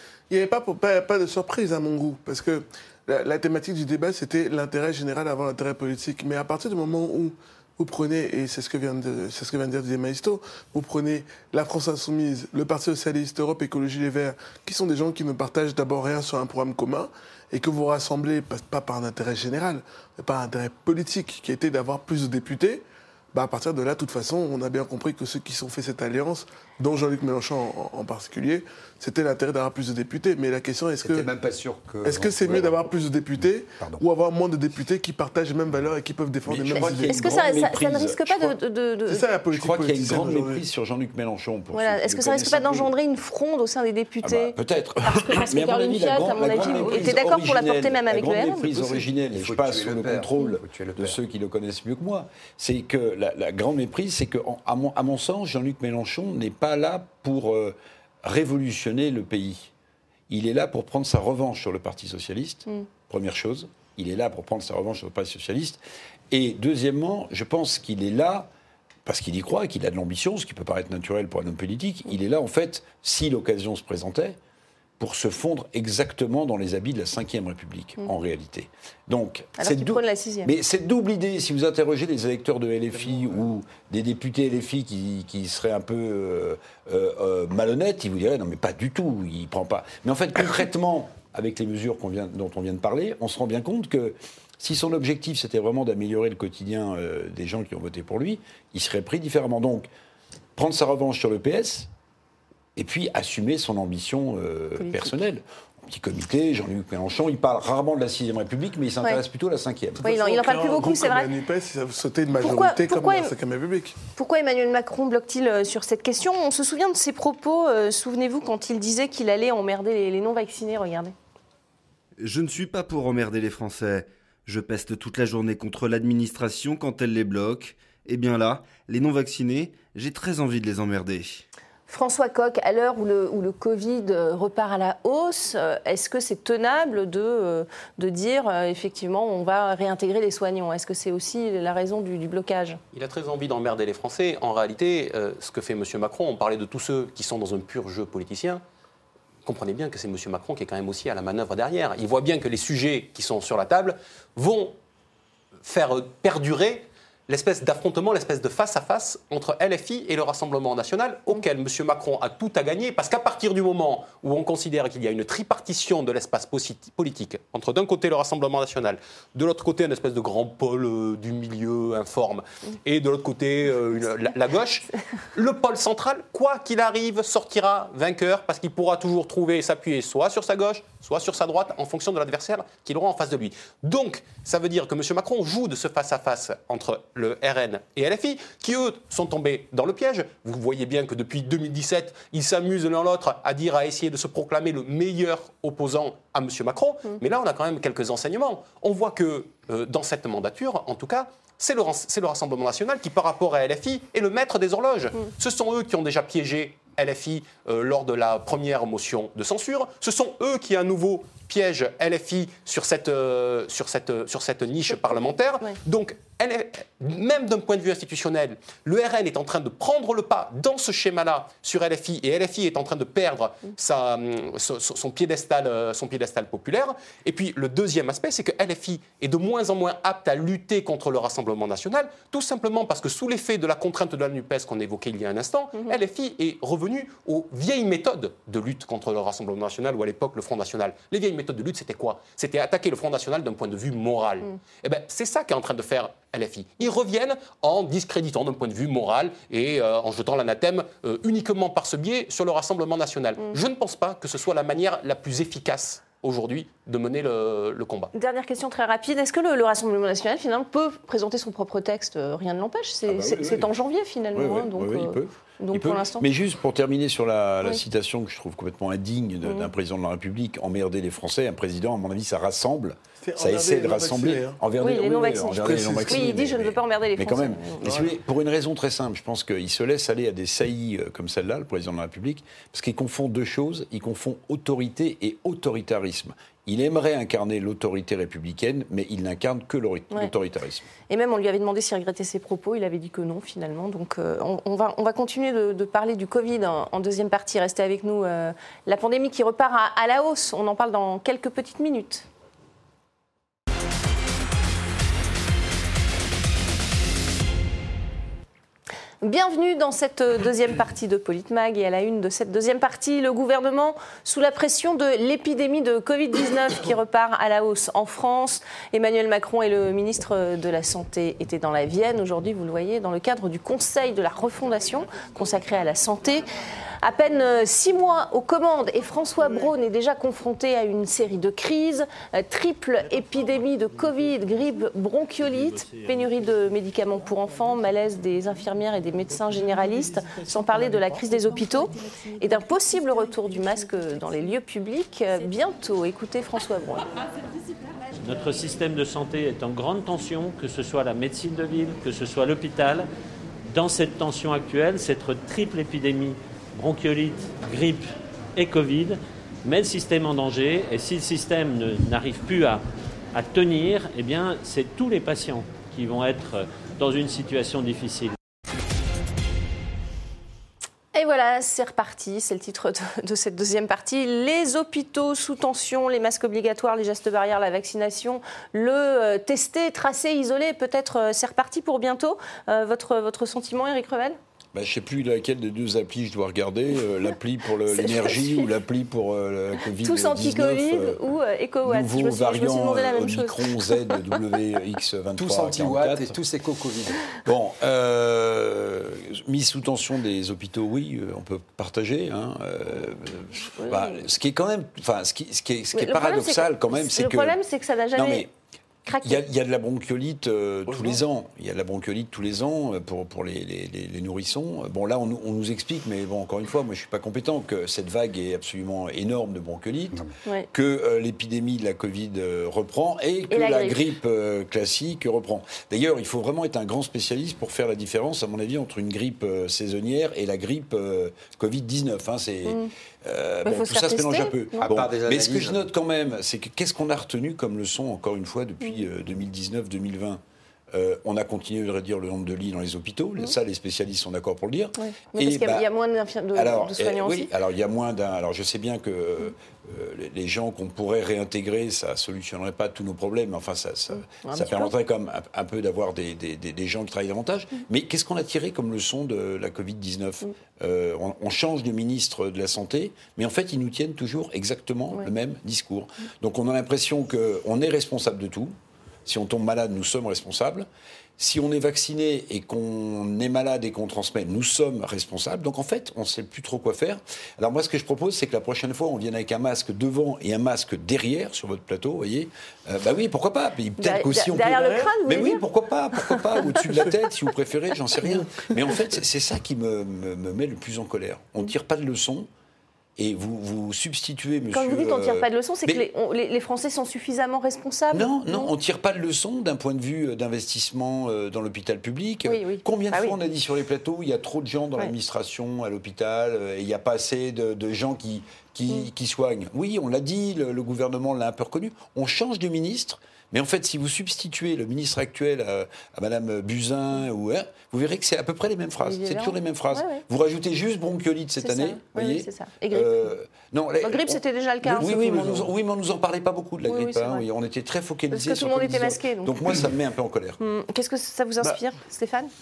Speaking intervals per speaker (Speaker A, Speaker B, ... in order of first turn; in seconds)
Speaker A: 0.3-31.3, 32.0-37.2, 39.1-40.6, 46.5-47.2, 82.9-83.5, 110.0-114.0, 273.2-274.6, 275.6-276.2, 277.8-278.1, 410.9-411.2
Speaker B: 31.0-32.9, 33.8-34.0, 49.3-51.2, 395.4-397.2, 434.8-435.8
Speaker C: 36.5-38.5, 39.5-42.9, 44.2-59.7, 60.3-65.8, 66.3-68.5, 69.0-74.4, 75.0-99.9, 100.5-101.9, 102.8-110.0, 263.1-263.7, 264.3-290.9, 384.7-391.2, 391.8-396.3, 397.4-407.6, 408.1-408.5, 409.2-440.4, 440.9-445.9, 446.5-470.9, 471.4-492.5, 493.2-496.0, 498.1-530.6
Speaker D: 36.7-39.3, 41.7-44.5, 45.1-49.0, 79.6-80.5, 104.8-105.1, 110.0-111.3, 112.4-113.3, 114.1-121.1, 131.9-142.8, 258.1-266.3, 269.4-269.7, 274.8-277.8, 291.1-302.2, 309.2-326.4, 327.0-347.1, 371.1-384.4, 387.9-388.7, 390.0-394.1, 403.8-404.2, 405.9-408.4, 409.1-409.4, 423.5-424.0, 433.6-434.8, 445.0-447.5, 454.1-454.9, 484.0-485.6, 494.7-498.7, 502.4-503.4, 519.0-520.2, 521.6-523.3, 524.0-525.7, 526.8-527.4, 528.3-529.6, 530.6-532.5
Speaker E: 122.2-131.4
Speaker F: 142.9-148.6, 149.4-154.8, 155.6-258.1
Speaker G: 348.2-353.1, 353.7-362.8, 363.3-368.4